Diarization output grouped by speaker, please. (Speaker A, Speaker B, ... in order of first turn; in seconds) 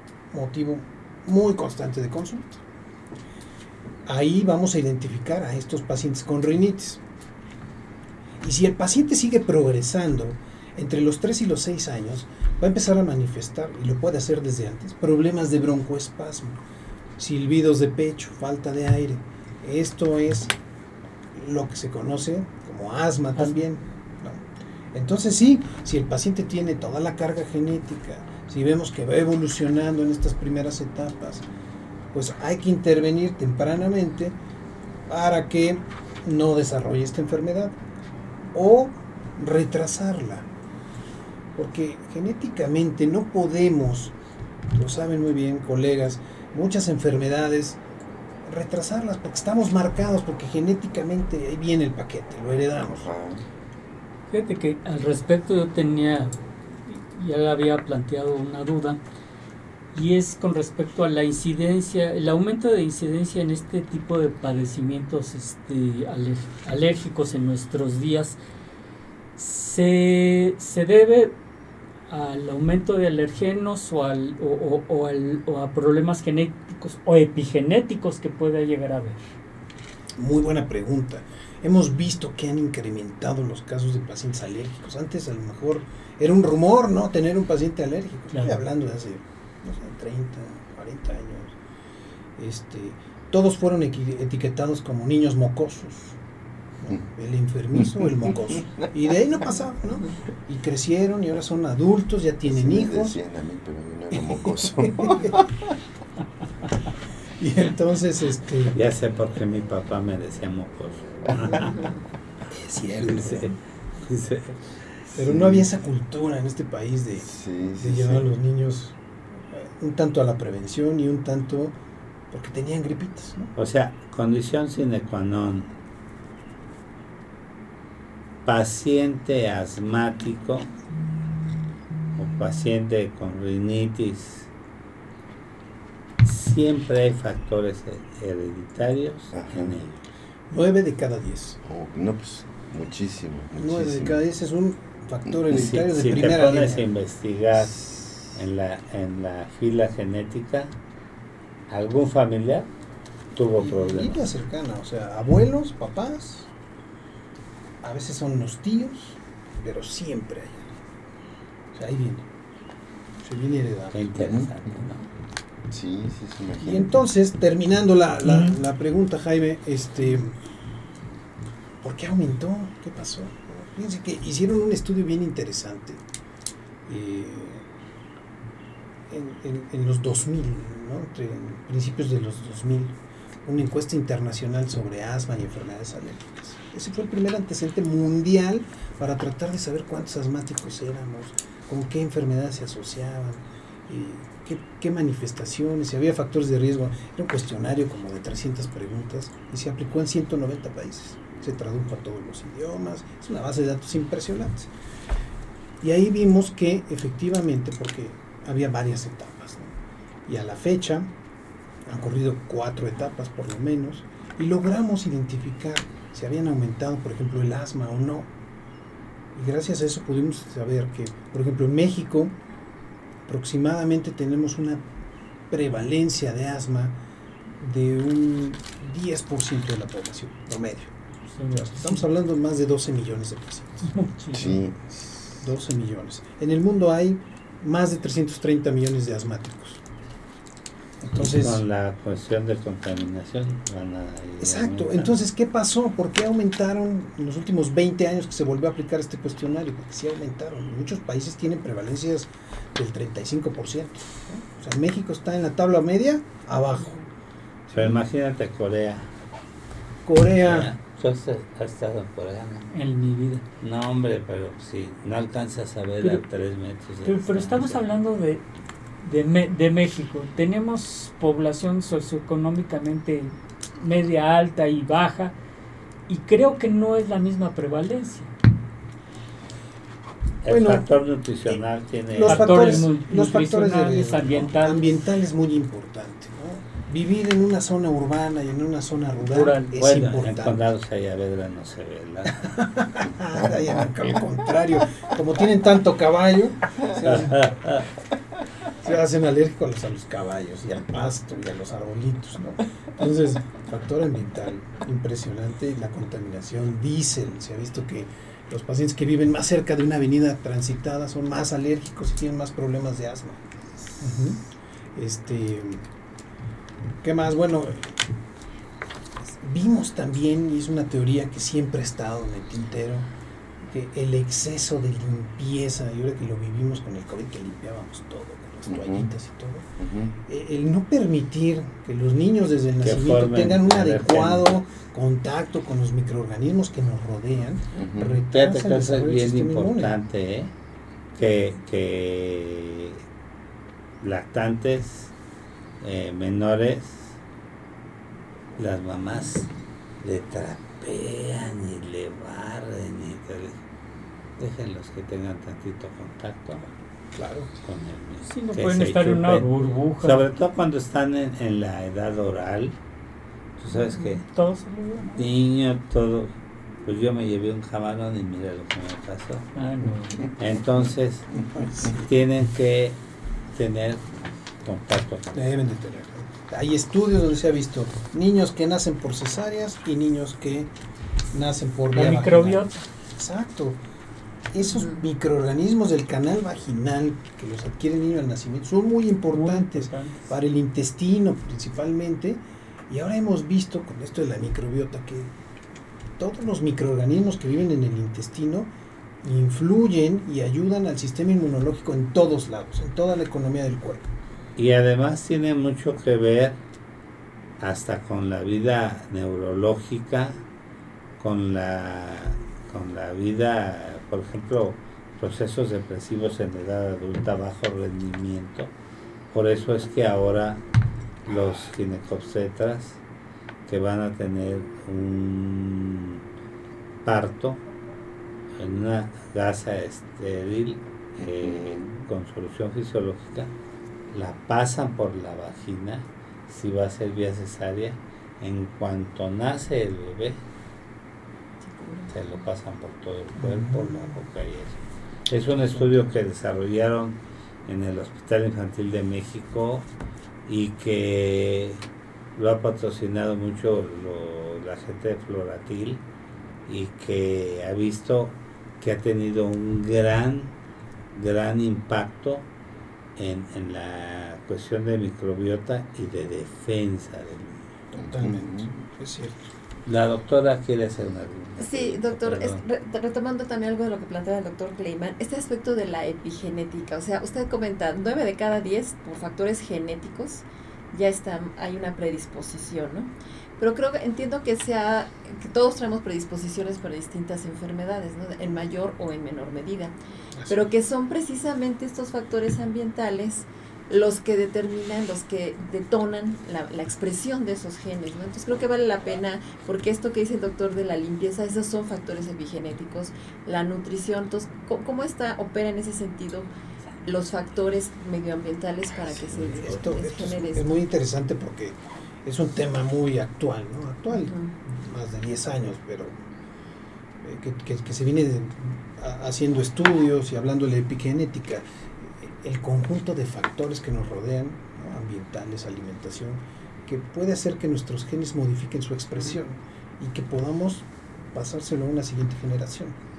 Speaker A: 0.3-2.6, 4.1-7.0, 8.4-16.6, 17.2-20.5, 21.4-24.4, 24.9-31.5, 32.1-34.4, 35.1-37.8, 38.5-40.5, 41.6-44.1, 44.7-47.8, 48.5-53.1, 80.2-91.5, 92.4-96.2, 96.8-103.2, 107.4-108.8, 112.7-113.5, 115.1-117.3, 117.8-119.0, 119.5-121.8, 122.3-123.5, 140.5-141.6, 143.6-146.9, 153.6-156.5, 157.8-160.7, 161.7-162.3, 163.2-164.0, 166.6-170.4, 171.8-176.0, 176.9-177.7, 179.1-204.7, 205.8-209.7, 210.3-211.1, 211.9-218.3, 219.3-222.3, 223.3-224.8, 225.5-227.0, 227.6-230.9, 231.5-233.9, 235.4-239.8, 241.0-241.6, 244.4-257.0, 260.1-260.7, 280.5-280.9, 282.1-290.7, 292.5-297.5, 298.8-313.4, 314.0-314.4, 315.0-315.8, 317.0-318.0, 319.4-323.1, 323.6-329.6, 330.3-339.9, 357.1-357.5, 371.5-372.1, 375.3-380.7, 381.3-383.8, 384.5-395.3, 396.2-398.7, 399.2-404.1, 443.4-443.9, 467.9-469.5, 509.4-516.2, 517.2-521.6, 522.2-533.0
Speaker B: 53.0-53.4, 102.5-105.7, 115.3-115.7, 117.2-118.3, 139.3-139.7, 141.6-144.2, 147.9-148.1, 164.2-164.8, 165.7-166.9, 234.3-235.0, 328.7-329.1, 329.8-330.1, 337.8-338.2, 431.2-432.1, 468.0-468.8
Speaker C: 54.3-56.3, 56.9-59.0, 59.9-68.4, 69.4-71.3, 72.1-79.3, 88.3-88.6, 168.3-168.6, 231.3-232.1, 233.9-234.6, 262.7-263.4, 267.1-268.4, 269.0-275.4, 276.1-278.3, 282.2-285.0, 289.2-289.8, 358.3-360.2, 364.1-365.3, 369.6-370.3, 381.9-382.8, 389.3-390.2
Speaker D: 108.7-111.9, 112.8-114.8, 123.6-125.7, 128.4-130.7, 132.2-134.5, 136.2-140.0, 145.5-150.7, 151.7-152.7, 153.3-154.2, 163.9-165.1, 241.2-245.2, 257.7-259.1, 260.4-262.7, 263.6-267.8, 280.4-282.9, 289.8-292.6, 297.1-297.9, 332.8-334.6, 338.3-340.5, 341.1-343.0, 344.0-345.1, 345.8-347.2, 348.6-349.5, 350.0-353.6, 354.4-356.7, 357.6-359.5, 360.0-362.8, 363.6-364.2, 365.2-366.3, 366.9-369.5, 370.4-373.0, 373.5-374.0, 374.6-375.4, 404.6-406.6, 407.6-410.4, 411.2-418.7, 419.3-420.6, 421.3-423.0, 423.7-426.2, 427.0-427.6, 428.6-433.5, 434.1-440.4, 442.1-449.9, 450.5-451.8, 452.4-456.0, 456.7-460.5, 461.1-462.5, 463.2-467.7, 469.9-472.6
Speaker E: 441.7-442.1, 471.6-489.9, 490.5-506.5, 507.0-510.7, 514.1-514.5